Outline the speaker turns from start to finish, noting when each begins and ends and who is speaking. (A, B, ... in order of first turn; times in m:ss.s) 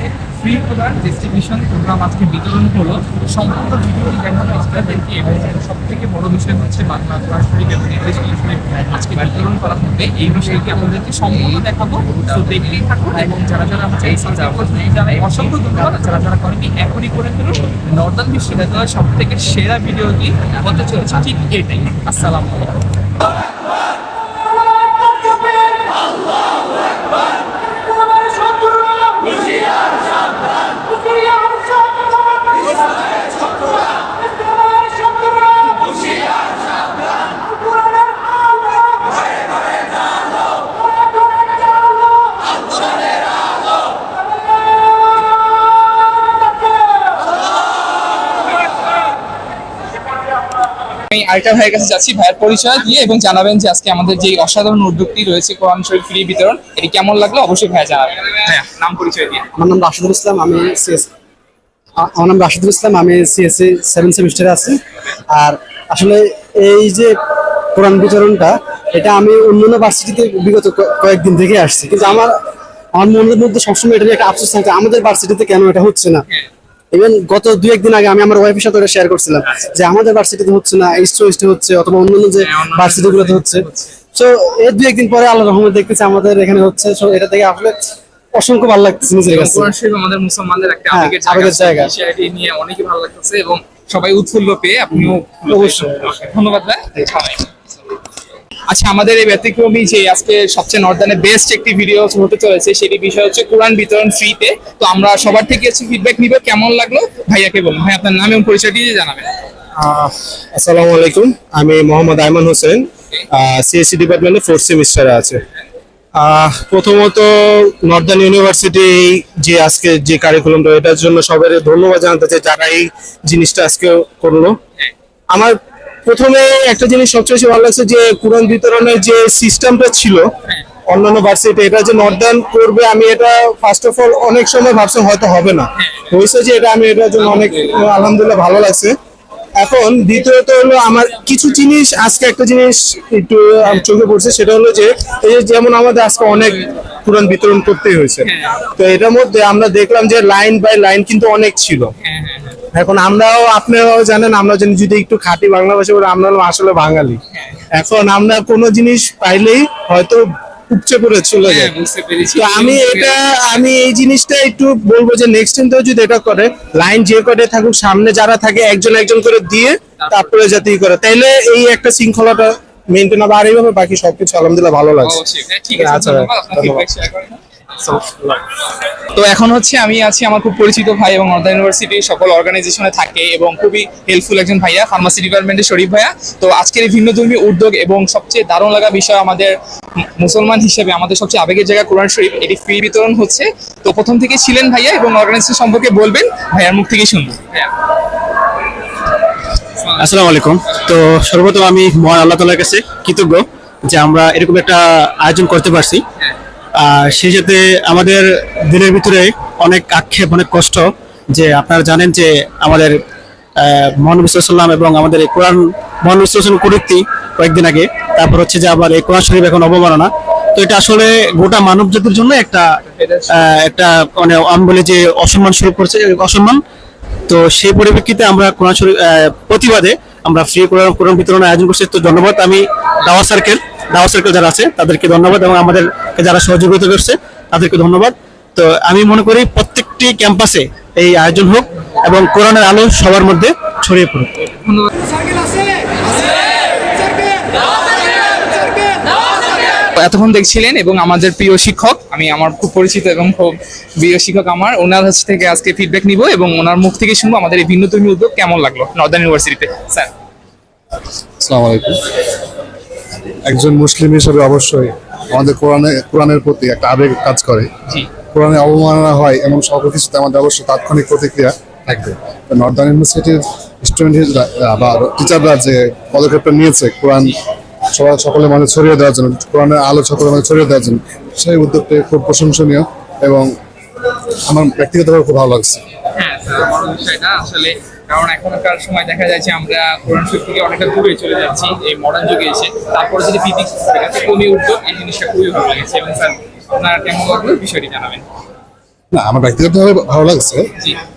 0:00.4-0:22.8 A
0:51.1-0:59.5 A
0:59.6-1:01.1 B
1:02.0-1:04.8 B
1:05.3-1:07.1 B
1:07.7-1:12.3 B
1:13.0-1:16.2 B
1:16.9-1:29.7 B
1:22.3-1:23.9 A
1:29.3-1:37.5 A
1:30.9-1:31.9 B
1:38.7-1:49.3 A
1:49.8-1:55.4 C
1:56.2-2:04.6 C
2:05.3-2:10.3 C
2:10.9-2:19.0 C
2:15.8-2:16.1 A
2:19.6-2:31.9 C
2:28.2-2:28.6 A
2:32.0-2:32.6 A
2:32.7-2:37.2 C
2:37.3-2:37.6 A
2:37.7-2:41.7 C
2:41.4-2:43.2 A
2:42.4-2:55.2 C
2:50.0-2:50.6 A
2:55.0-2:58.0 A
2:55.7-2:56.8 C
2:58.0-2:58.4 C
2:59.1-3:17.7 A
3:19.8-3:20.1 A
3:20.0-3:26.0 D
3:26.8-3:33.0 D
3:33.6-3:42.7 D
3:42.9-3:43.4 A
3:43.4-3:46.6 D
3:47.3-4:04.3 D
4:04.4-4:05.0 A
4:09.8-4:20.1 A
4:21.4-4:22.0 E
4:23.4-4:27.7 E
4:28.3-4:37.4 E
4:37.9-4:43.5 E
4:44.5-4:45.8 E
4:46.1-4:58.2 A
4:59.1-5:00.7 E